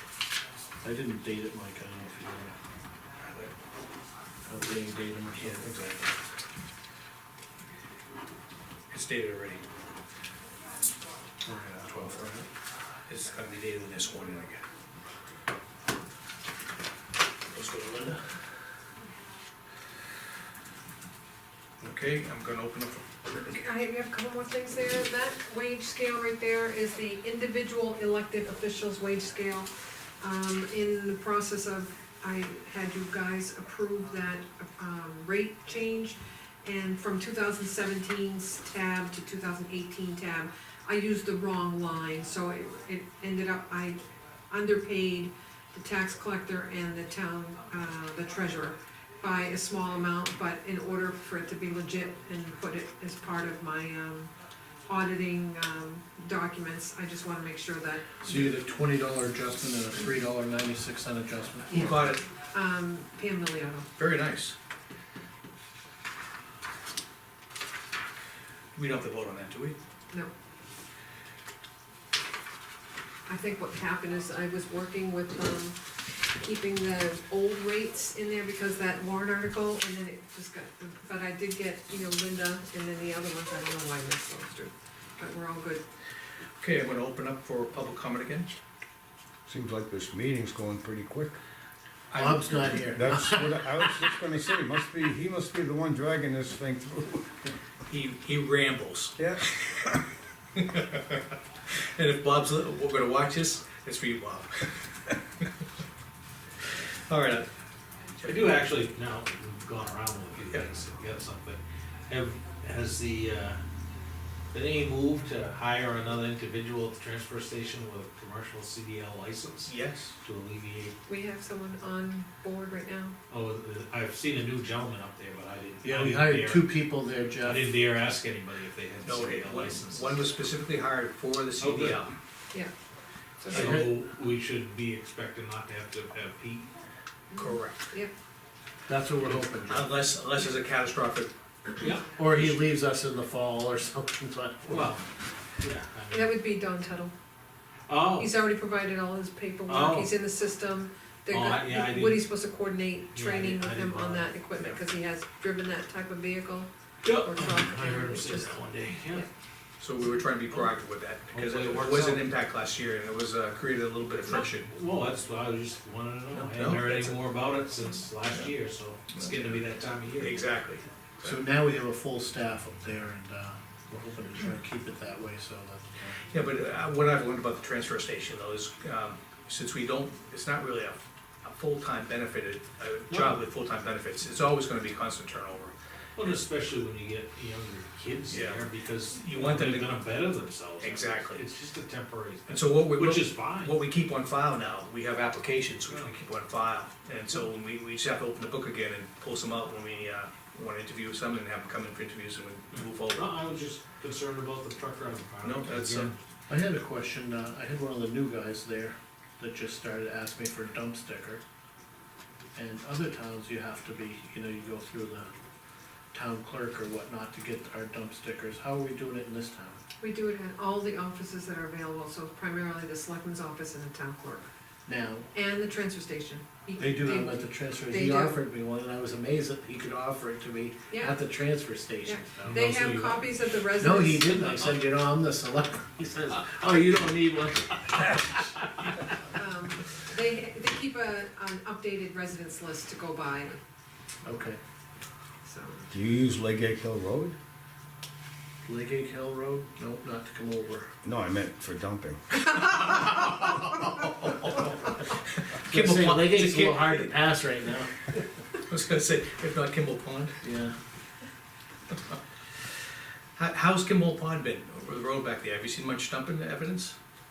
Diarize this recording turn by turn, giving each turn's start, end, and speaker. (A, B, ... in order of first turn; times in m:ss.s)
0:00.8-0:02.6 A
0:03.2-0:03.5 B
0:04.4-0:06.0 A
0:05.6-0:05.9 B
0:08.9-0:09.6 B
0:11.4-0:12.5 A
0:13.1-0:14.6 B
0:17.5-0:18.2 B
0:21.8-0:23.1 B
0:23.4-0:54.3 C
0:54.9-0:58.5 C
0:58.2-1:02.0 A
1:01.7-1:03.9 C
1:01.7-1:02.3 B
1:04.0-1:04.6 B
1:08.8-1:09.8 B
1:13.3-1:25.8 C
1:26.6-1:28.5 B
1:29.5-1:31.4 D
1:32.1-1:32.7 B
1:32.2-1:33.6 A
1:33.0-1:37.3 D
1:37.9-1:39.7 B
1:39.2-1:39.5 D
1:41.9-1:45.1 B
1:47.1-1:47.5 B
1:48.2-1:48.5 B
1:48.2-1:53.6 E
1:54.5-2:01.0 E
1:59.6-2:00.2 B
2:01.0-2:03.2 C
2:03.3-2:06.7 E
2:05.8-2:07.7 A
2:07.4-2:10.2 E
2:09.0-2:12.1 B
2:11.6-2:12.0 E
2:13.4-2:13.8 C
2:13.5-2:16.7 E
2:13.5-2:14.0 A
2:17.3-2:18.1 C
2:17.4-2:17.9 B
2:18.9-2:19.9 A
2:19.7-2:21.3 B
2:21.8-2:22.1 E
2:22.2-2:24.9 A
2:24.7-2:25.0 E
2:25.6-2:26.3 E
2:26.1-2:27.1 C
2:27.9-2:28.3 E
2:28.2-2:39.3 C
2:29.7-2:30.1 E
2:31.3-2:32.3 E
2:33.1-2:34.3 E
2:37.0-2:39.3 E
2:39.8-2:44.7 B
2:41.3-2:42.3 E
2:44.3-2:50.5 E
2:46.3-2:47.2 B
2:49.1-2:49.6 B
2:50.2-2:51.4 B
2:51.2-2:56.2 A
2:56.3-3:05.8 B
3:03.1-3:03.4 E
3:06.2-3:13.8 E
3:08.3-3:09.9 B
3:10.8-3:11.4 B
3:12.5-3:23.3 B
3:23.1-3:26.2 E
3:25.4-3:26.1 B
3:26.5-3:31.4 A
3:32.6-3:35.3 A
3:36.1-3:39.8 A
3:40.0-3:44.5 C
3:44.9-3:45.3 A
3:45.3-3:48.4 C
3:46.8-3:52.6 A
3:50.9-3:51.2 C
3:52.0-3:54.6 C
3:52.4-3:53.4 E
3:53.8-3:58.4 A
3:59.4-4:03.6 C
4:04.2-4:04.6 A
4:05.4-4:05.9 C
4:05.9-4:07.4 D
4:08.6-4:10.9 A
4:11.0-4:12.2 D
4:12.8-4:14.8 B
4:15.6-4:17.1 B
4:15.6-4:17.9 A
4:18.7-4:20.4 B
4:20.4-4:20.7 A
4:23.4-4:27.0 B